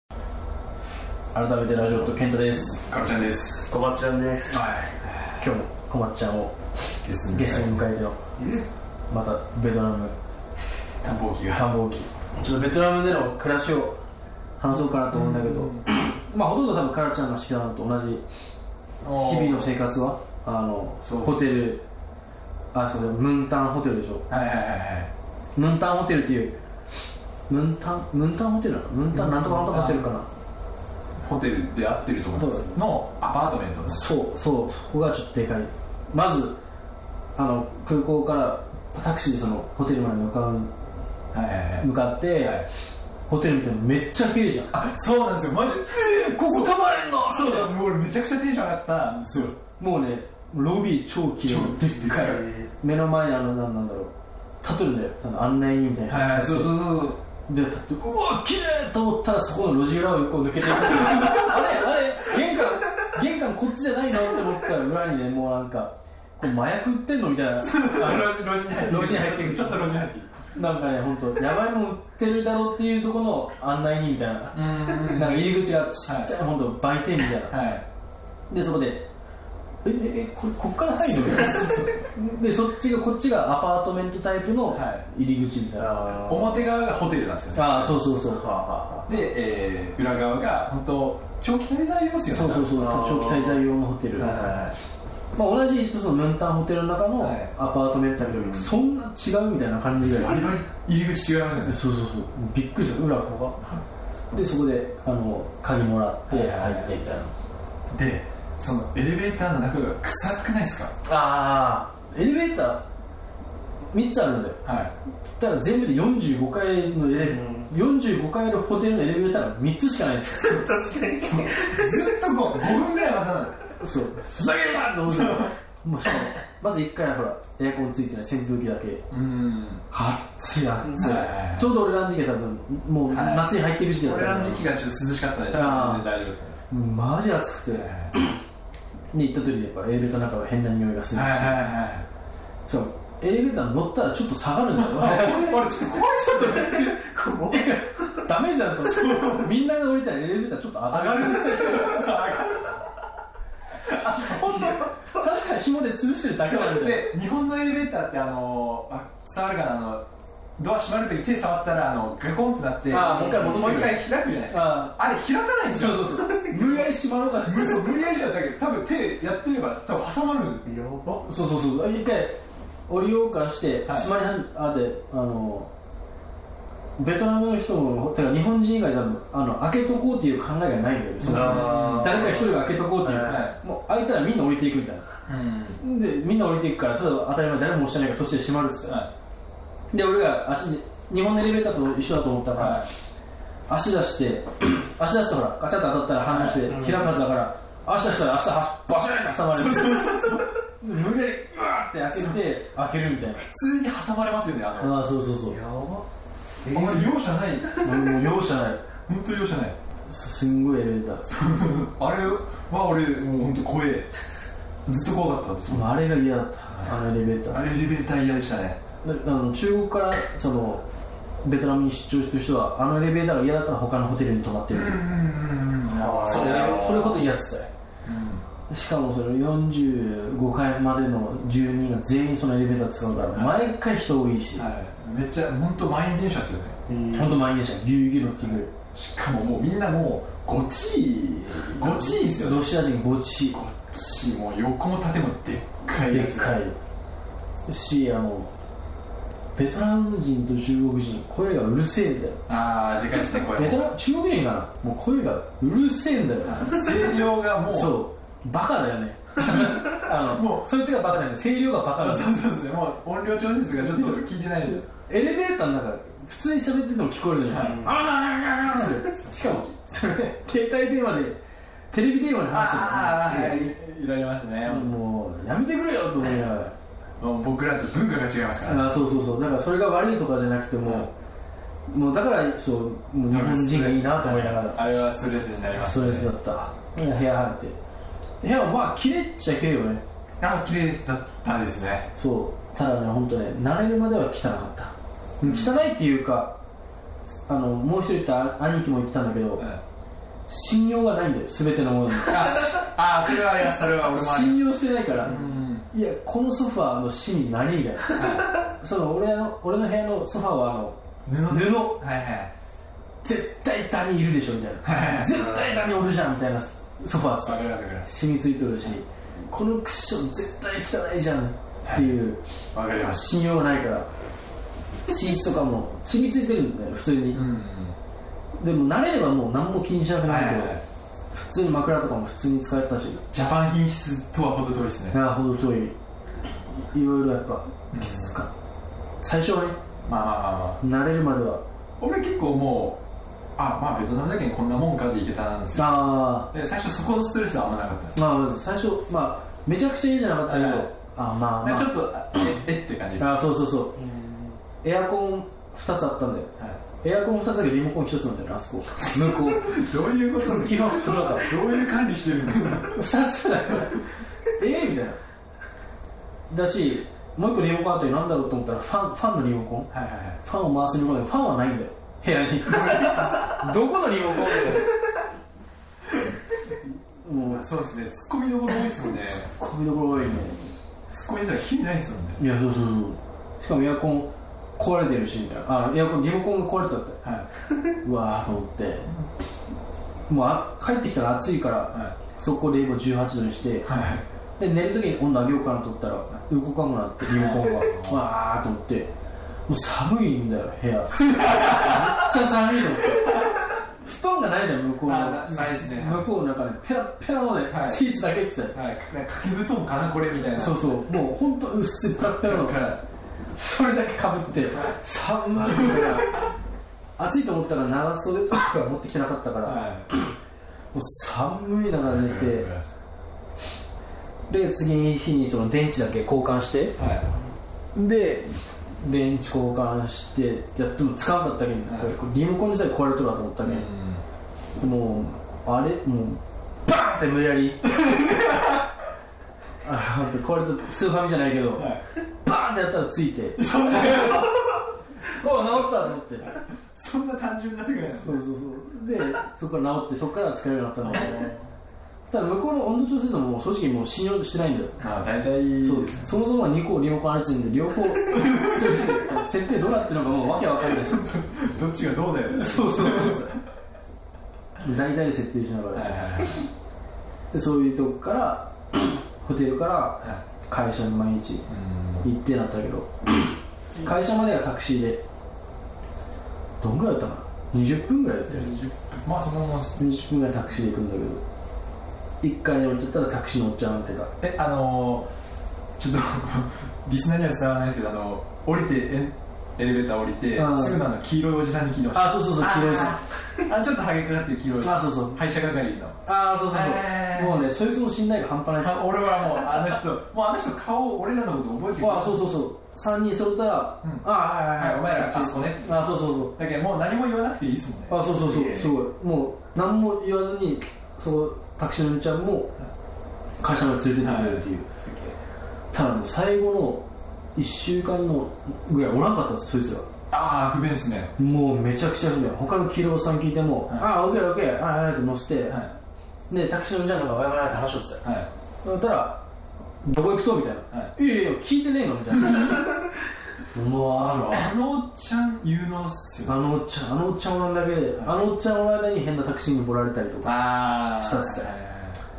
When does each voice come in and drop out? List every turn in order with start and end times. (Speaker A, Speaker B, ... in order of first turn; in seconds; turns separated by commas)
Speaker A: 1.3-2.8, Speaker B: 2.9-3.7, Speaker C: 3.7-4.7, Speaker A: 4.5-6.6, Speaker B: 5.0-5.5, Speaker B: 7.0-7.9, Speaker A: 7.3-8.2, Speaker C: 8.4-8.7, Speaker A: 9.1-10.2, Speaker B: 11.0-11.7, Speaker A: 11.5-14.0, Speaker A: 14.6-18.2, Speaker B: 14.7-15.9, Speaker B: 19.0-19.8, Speaker A: 19.1-21.8, Speaker B: 21.0-21.7, Speaker A: 22.7-24.2, Speaker B: 24.3-25.1, Speaker A: 25.6-26.6, Speaker A: 27.5-30.3, Speaker B: 29.1-30.1, Speaker B: 31.2-34.1, Speaker A: 32.4-32.8, Speaker A: 33.9-36.6, Speaker A: 37.4-40.7, Speaker B: 41.3-42.7, Speaker A: 41.8-42.7, Speaker A: 43.3-44.7, Speaker B: 44.7-49.6, Speaker A: 45.9-47.7, Speaker A: 49.8-56.9, Speaker B: 51.5-52.4, Speaker C: 52.1-52.7, Speaker B: 56.1-57.2, Speaker A: 57.5-70.0, Speaker B: 60.7-61.6, Speaker B: 67.6-70.5, Speaker A: 70.5-77.6, Speaker B: 74.5-76.3, Speaker B: 77.5-77.9, Speaker A: 78.5-79.1, Speaker A: 79.8-86.0, Speaker B: 81.0-82.0, Speaker B: 84.7-85.1, Speaker C: 85.8-86.7, Speaker B: 86.3-88.0, Speaker A: 87.5-88.4, Speaker C: 88.3-89.1, Speaker B: 89.1-92.8, Speaker A: 92.3-94.5, Speaker C: 92.7-93.6, Speaker C: 94.2-94.7, Speaker B: 94.2-94.7, Speaker A: 95.3-100.5, Speaker B: 97.2-97.5, Speaker C: 98.2-98.7, Speaker B: 100.0-101.8, Speaker A: 101.7-103.6, Speaker A: 104.3-107.3, Speaker B: 106.3-106.9, Speaker B: 107.9-110.9, Speaker A: 111.0-112.8, Speaker A: 113.9-114.6, Speaker B: 114.6-114.9, Speaker A: 115.4-120.7, Speaker C: 117.1-117.7, Speaker C: 120.4-122.0, Speaker B: 121.2-123.7, Speaker A: 123.8-129.1, Speaker B: 125.1-125.5, Speaker B: 129.1-129.8, Speaker A: 129.9-134.7, Speaker B: 131.0-131.7, Speaker B: 133.1-136.7, Speaker A: 135.5-136.1, Speaker A: 136.7-138.4, Speaker B: 137.7-138.1, Speaker A: 139.1-141.7, Speaker B: 141.1-142.1, Speaker A: 142.7-152.1, Speaker B: 144.8-146.8, Speaker C: 146.8-147.6, Speaker B: 148.8-149.5, Speaker B: 150.9-152.8, Speaker B: 153.9-154.8, Speaker A: 153.9-157.1, Speaker B: 156.4-160.1, Speaker B: 160.6-166.9, Speaker A: 162.9-165.0, Speaker C: 163.0-163.8, Speaker A: 165.7-168.0, Speaker B: 167.4-170.7, Speaker C: 170.7-171.2, Speaker A: 171.2-175.7, Speaker A: 177.0-185.1, Speaker B: 181.2-182.4, Speaker C: 181.2-183.5, Speaker B: 183.2-183.6, Speaker B: 185.3-185.8, Speaker A: 185.8-189.0, Speaker B: 188.9-189.1, Speaker A: 189.9-192.9, Speaker B: 192.6-192.9, Speaker A: 193.7-203.4, Speaker B: 196.2-196.7, Speaker C: 196.7-197.1, Speaker B: 199.5-200.5, Speaker B: 202.1-202.4, Speaker B: 203.3-205.0, Speaker A: 204.8-205.6, Speaker C: 205.5-206.1, Speaker C: 206.6-207.9, Speaker B: 206.7-207.7, Speaker A: 207.8-208.8, Speaker B: 209.1-209.8, Speaker A: 210.1-211.4, Speaker B: 211.3-214.1, Speaker B: 214.8-216.0, Speaker A: 215.7-217.6, Speaker B: 216.7-218.8, Speaker A: 219.0-220.9, Speaker A: 221.4-225.0, Speaker B: 224.7-227.1, Speaker C: 225.9-227.3, Speaker A: 226.2-227.7, Speaker B: 228.1-228.5, Speaker A: 228.7-234.7, Speaker B: 233.3-233.7, Speaker B: 234.6-236.8, Speaker C: 236.9-237.4, Speaker A: 237.1-238.7, Speaker B: 238.4-242.7, Speaker A: 241.7-243.6, Speaker B: 243.5-246.6, Speaker A: 246.0-246.8, Speaker A: 247.7-248.5, Speaker A: 249.6-252.4, Speaker B: 252.5-253.9, Speaker A: 253.5-257.1, Speaker B: 256.4-258.0, Speaker A: 257.7-262.4, Speaker B: 259.4-260.7, Speaker B: 262.0-264.9, Speaker A: 263.8-271.4, Speaker B: 267.5-267.9, Speaker C: 267.5-267.9, Speaker B: 269.3-269.6, Speaker A: 271.9-273.7, Speaker B: 272.5-274.9, Speaker A: 274.6-276.7, Speaker B: 277.2-278.9, Speaker A: 278.6-281.1, Speaker B: 280.9-281.1, Speaker A: 281.9-284.8, Speaker B: 283.3-286.3, Speaker A: 285.7-287.8, Speaker A: 288.4-290.0, Speaker B: 290.4-292.1, Speaker A: 292.2-296.6, Speaker B: 295.4-295.8, Speaker A: 297.5-299.7, Speaker B: 299.6-299.8, Speaker A: 300.5-302.7, Speaker B: 302.3-305.9, Speaker A: 304.1-312.0, Speaker B: 308.1-308.5, Speaker B: 311.3-312.5, Speaker A: 313.2-322.4, Speaker B: 314.8-315.5, Speaker B: 317.4-318.1, Speaker B: 321.8-322.2, Speaker B: 322.7-323.3, Speaker A: 322.9-324.1, Speaker A: 325.1-327.4, Speaker B: 327.3-328.0, Speaker A: 328.6-330.8, Speaker B: 330.3-330.8, Speaker A: 331.3-333.3, Speaker B: 333.3-335.2, Speaker A: 335.1-336.0, Speaker A: 336.7-338.5, Speaker B: 337.9-338.4, Speaker A: 339.2-339.8, Speaker B: 340.1-340.8, Speaker A: 340.8-341.6, Speaker B: 342.0-343.0, Speaker B: 343.6-348.2, Speaker A: 345.8-346.5, Speaker A: 348.2-352.4, Speaker B: 350.5-350.9, Speaker B: 351.6-353.4, Speaker A: 353.2-354.0, Speaker C: 354.0-354.6, Speaker A: 354.8-361.5, Speaker B: 359.2-363.0, Speaker A: 362.9-365.2, Speaker A: 366.5-374.9, Speaker B: 369.9-370.4, Speaker B: 372.8-373.3, Speaker A: 377.2-377.7, Speaker B: 377.5-379.5, Speaker A: 379.2-380.6, Speaker B: 381.1-382.4, Speaker A: 382.4-387.2, Speaker B: 387.2-387.5, Speaker A: 388.0-389.1, Speaker A: 390.3-393.9, Speaker B: 393.8-394.3, Speaker A: 394.6-399.1, Speaker B: 397.3-398.3, Speaker A: 399.7-403.4, Speaker B: 401.4-402.2, Speaker A: 404.0-408.8, Speaker B: 405.1-406.3, Speaker B: 407.7-408.1, Speaker B: 408.7-410.9, Speaker A: 410.6-412.9, Speaker B: 412.4-413.0, Speaker A: 413.6-416.5, Speaker B: 415.6-416.5, Speaker A: 417.2-420.4, Speaker B: 419.6-420.1, Speaker A: 420.9-422.7, Speaker B: 422.1-422.9, Speaker A: 424.5-427.0, Speaker B: 427.0-427.2, Speaker A: 427.9-433.9, Speaker B: 431.9-432.1, Speaker B: 433.6-434.2, Speaker A: 434.8-437.9, Speaker B: 437.9-438.9, Speaker A: 439.8-444.6, Speaker B: 441.8-442.0, Speaker B: 443.6-444.8, Speaker A: 445.3-446.6, Speaker B: 445.4-445.9, Speaker B: 446.5-448.4, Speaker A: 448.2-451.5, Speaker B: 451.0-451.6, Speaker A: 452.3-455.0, Speaker B: 455.0-456.3, Speaker A: 455.8-461.3, Speaker B: 458.3-459.0, Speaker B: 460.8-463.6, Speaker A: 462.5-463.6, Speaker A: 464.8-466.2, Speaker B: 465.9-466.7, Speaker A: 467.5-471.7, Speaker B: 471.7-472.3, Speaker A: 472.2-475.2, Speaker A: 476.8-478.8, Speaker B: 478.5-480.2, Speaker A: 480.0-481.4, Speaker A: 482.4-484.3, Speaker B: 484.4-485.3, Speaker B: 486.0-497.7, Speaker A: 490.6-491.0, Speaker A: 492.1-493.2, Speaker A: 494.8-495.4, Speaker A: 496.2-499.1, Speaker B: 498.8-502.5, Speaker A: 502.0-506.6, Speaker B: 504.0-508.2, Speaker A: 508.1-512.7, Speaker C: 508.3-509.0, Speaker A: 513.6-514.9, Speaker B: 514.2-515.2, Speaker A: 515.9-520.1, Speaker B: 520.3-521.3, Speaker A: 521.4-525.8, Speaker B: 525.7-525.9, Speaker A: 526.5-528.2, Speaker B: 528.2-528.5, Speaker A: 528.8-529.4, Speaker A: 530.0-532.9, Speaker A: 533.7-534.7, Speaker B: 534.2-536.6, Speaker A: 536.5-541.7, Speaker B: 540.4-542.2